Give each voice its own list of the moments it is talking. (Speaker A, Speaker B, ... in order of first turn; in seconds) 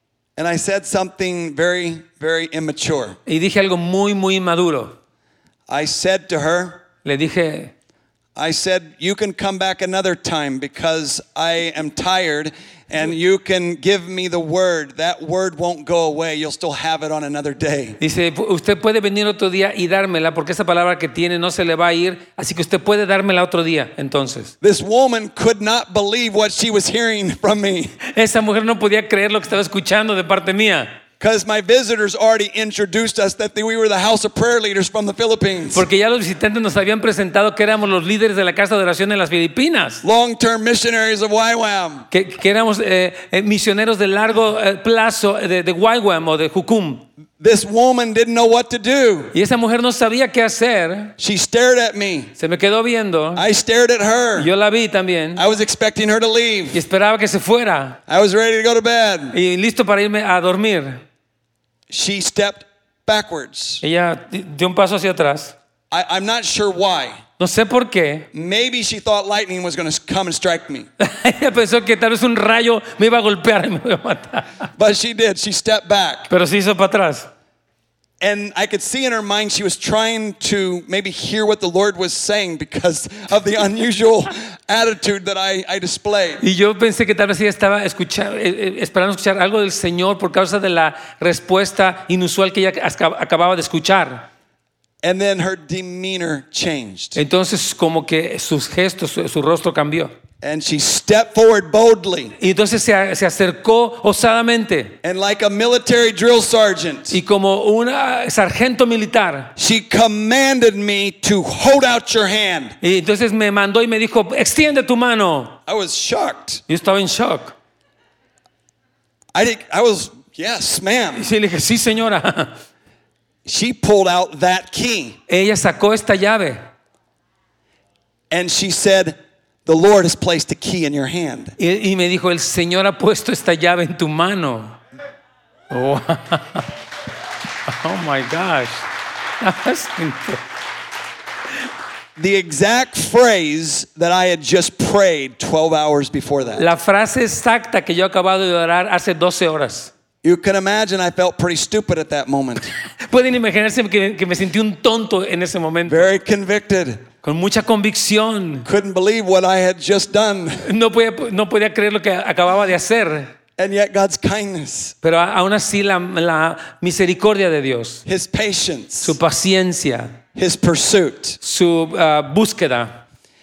Speaker A: 0.4-3.2, 5.7-6.8, 8.4-18.0, 24.6-27.9, 31.2-35.9, 40.0-42.1, 47.4-49.3, 51.2-52.3, 53.4-54.5, 55.4-56.8, 58.1-59.4, 61.9-63.8, 65.9-67.2, 68.3-70.9, 74.8-76.3, 78.2-86.4, 95.0-97.2, 100.4-102.3, 105.0-107.2, 109.6-112.8, 115.7-116.6, 119.3-121.3, 123.5-125.2, 128.3-131.6, 142.2-146.7, 150.2-152.7, 155.9-157.1, 158.7-160.7, 163.6-164.9, 168.1-169.2, 170.3-171.4
Speaker B: 3.3-5.0, 7.0-7.7, 18.0-24.5, 28.1-30.9, 35.7-40.0, 42.1-47.0, 49.3-51.1, 52.4-53.4, 54.4-55.4, 56.7-58.0, 59.3-61.0, 63.8-65.6, 67.4-68.3, 71.0-74.6, 76.3-77.3, 86.4-94.3, 97.2-100.1, 102.4-105.0, 107.1-109.5, 112.8-115.6, 116.7-117.5, 121.2-122.6, 125.3-126.6, 131.6-134.8, 135.7-136.7, 137.7-140.4, 146.6-149.9, 153.0-156.1, 157.2-158.7, 160.6-163.3, 165.0-168.0, 169.0-170.2, 171.4-173.0